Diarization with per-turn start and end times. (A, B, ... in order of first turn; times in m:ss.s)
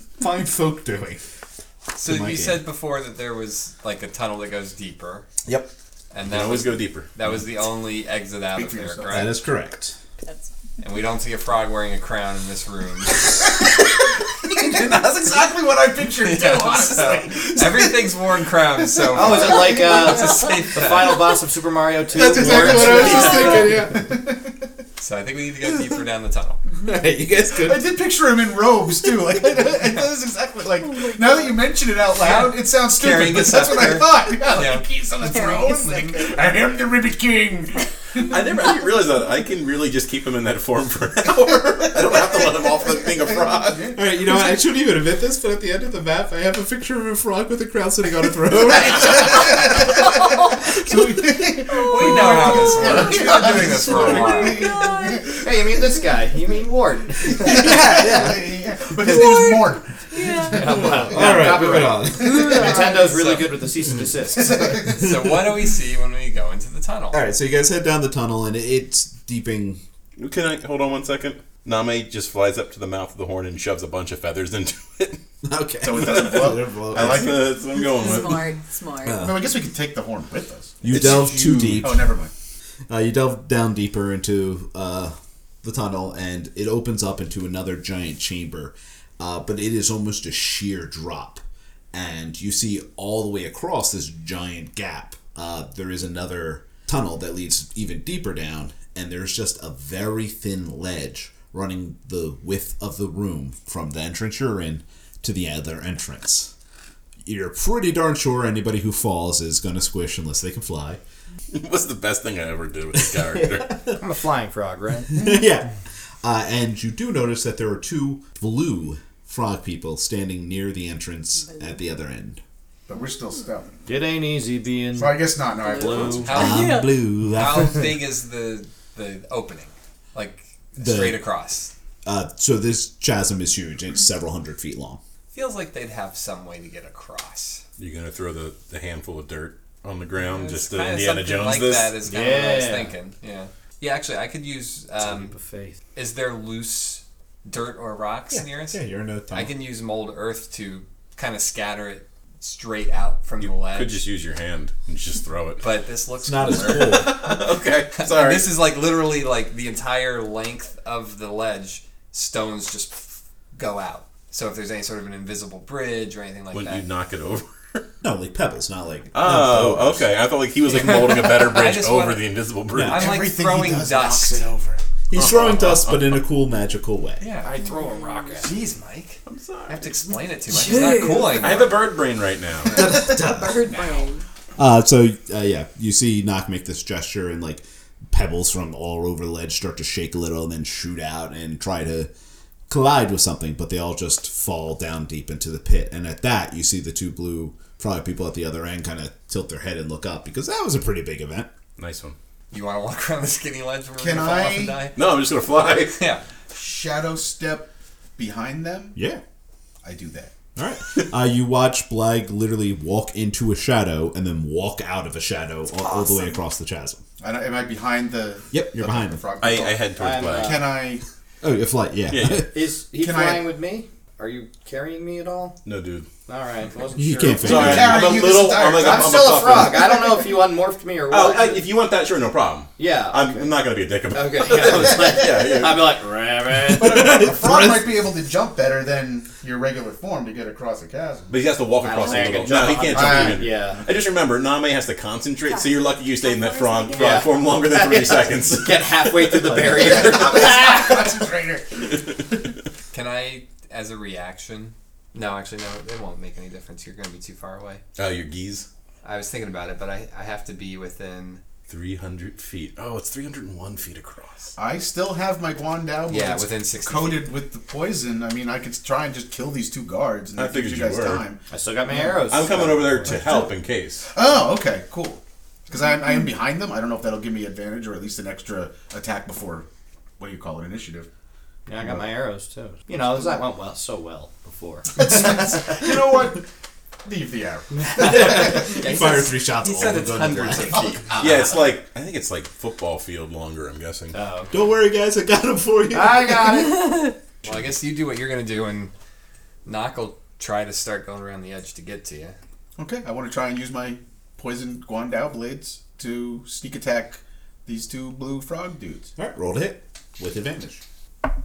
0:00.2-0:01.2 A
0:01.9-0:05.3 B
0:02.0-0:02.6 A
0:05.4-0:05.7 A
0:06.1-0:09.4 B
0:06.2-0:07.1 C
0:08.5-0:09.3 D
0:09.1-0:10.0 A
0:10.8-0:13.5 B
0:14.4-0:18.2 D
0:16.2-0:21.3 B
0:18.7-0:20.2 D
0:19.1-0:23.5 E
0:22.1-0:24.1 A
0:22.1-0:24.6 D
0:25.0-0:26.6 B
0:26.7-0:26.9 F
0:26.8-0:27.8 A
0:27.5-0:38.2 D
0:31.0-0:31.4 F
0:32.2-0:34.8 B
0:35.3-0:36.4 F
0:38.2-0:43.9 C
0:42.0-0:44.0 D
0:43.9-0:50.0 A
0:48.9-0:49.9 D
0:50.8-0:51.3 A
0:50.8-0:56.0 D
0:51.7-0:55.3 F
0:51.8-0:54.7 B
0:55.4-0:57.7 E
0:57.2-1:01.6 D
0:57.4-0:58.4 A
0:59.0-1:00.7 F
1:00.5-1:04.6 E
1:00.9-1:02.5 A
1:02.2-1:03.0 D
1:02.5-1:03.0 F
1:02.9-1:03.5 B
1:04.4-1:05.1 D
1:04.8-1:07.3 B
1:07.1-1:09.8 A
1:10.2-1:15.2 C
1:15.4-1:17.5 A
1:15.8-1:17.5 D
1:16.0-1:16.4 C
1:16.9-1:18.5 C
1:17.8-1:19.2 F
1:19.1-1:19.4 A
1:19.1-1:22.3 D
1:20.8-1:22.1 A
1:21.0-1:21.7 C
1:22.9-1:31.4 A
1:31.9-1:46.5 A
1:47.2-1:51.0 A
1:51.5-1:53.9 C
1:52.9-1:54.0 A
1:53.9-1:55.3 E
1:55.1-1:55.7 A
1:56.2-2:02.4 A
2:01.5-2:01.8 F
2:02.9-2:03.8 D
2:03.8-2:06.4 E
2:04.9-2:06.3 D
2:05.6-2:07.0 F
2:06.2-2:11.7 B
2:06.3-2:07.8 A
2:10.8-2:11.2 A
2:12.0-2:15.0 A
2:15.3-2:17.6 B
2:17.8-2:22.0 C
2:20.2-2:25.3 B
2:22.0-2:22.9 E
2:25.0-2:25.8 E
2:25.9-2:28.8 B
2:28.4-2:29.5 A
2:29.3-2:34.0 B
2:33.4-2:35.6 C
2:35.6-2:37.3 B
2:36.2-2:37.3 A
2:36.5-2:38.5 C
2:37.9-2:46.9 B
2:46.5-2:47.8 C
2:48.0-2:50.1 A
2:49.1-2:53.1 C
2:50.7-2:54.5 B
2:52.7-2:53.0 A
2:52.9-2:54.8 D
2:55.1-2:57.2 A
2:55.1-2:56.2 C
2:57.2-3:01.9 B
2:57.6-2:58.4 F
2:58.4-2:58.7 E
2:59.2-3:00.2 C
3:00.5-3:01.6 F
3:01.3-3:02.9 C
3:02.7-3:03.7 A
3:02.8-3:04.2 F
3:03.6-3:04.1 D
3:04.6-3:12.1 A
3:12.7-3:21.5 A
3:21.8-3:22.2 C
3:22.5-3:26.2 B
3:24.0-3:24.9 D
3:24.9-3:26.0 C
3:26.5-3:29.0 D
3:29.0-3:29.2 A
3:29.8-3:30.3 D
3:30.6-3:37.0 A
3:37.2-3:41.0 D
3:38.5-3:39.2 A
3:39.4-3:40.6 C
3:40.0-3:40.8 E
3:41.4-3:42.5 A
3:42.1-3:42.5 C
3:42.4-3:45.6 E
3:43.0-3:43.5 D
3:45.6-3:46.1 C
3:46.3-3:48.1 E
3:47.0-3:48.1 A
3:47.4-3:49.9 C
3:47.4-3:50.0 D
3:48.6-3:51.7 E
3:51.1-3:56.0 C
3:52.8-3:53.4 E
3:54.1-3:57.1 E
3:56.7-4:01.4 D
3:56.8-3:58.0 A
4:01.3-4:09.7 C
4:01.8-4:03.8 E
4:02.1-4:03.5 D
4:05.4-4:07.3 F
4:07.0-4:11.1 E
4:09.4-4:09.8 A
4:09.6-4:11.7 D
4:12.9-4:17.8 B
4:18.0-4:18.7 C
4:19.0-4:21.4 B
4:21.7-4:24.5 C
4:24.6-4:32.3 D
4:26.1-4:27.3 B
4:30.3-4:31.2 C
4:31.5-4:33.3 E
4:32.3-4:34.1 C
4:33.0-4:33.5 D
4:34.1-4:39.7 D
4:40.2-4:41.1 D
4:41.7-4:45.8 E
4:44.9-4:46.4 D
4:47.0-4:48.7 D
4:47.7-4:48.7 E
4:48.0-4:50.8 A
4:48.6-4:51.2 B
4:51.1-4:51.5 E
4:51.2-4:54.2 C
4:54.1-4:54.6 E
4:54.5-4:56.7 A
4:55.9-4:57.1 E
4:56.7-4:57.1 F
4:57.4-4:58.9 B
4:59.6-5:02.4 B
5:02.8-5:09.1 D
5:09.2-5:10.8 A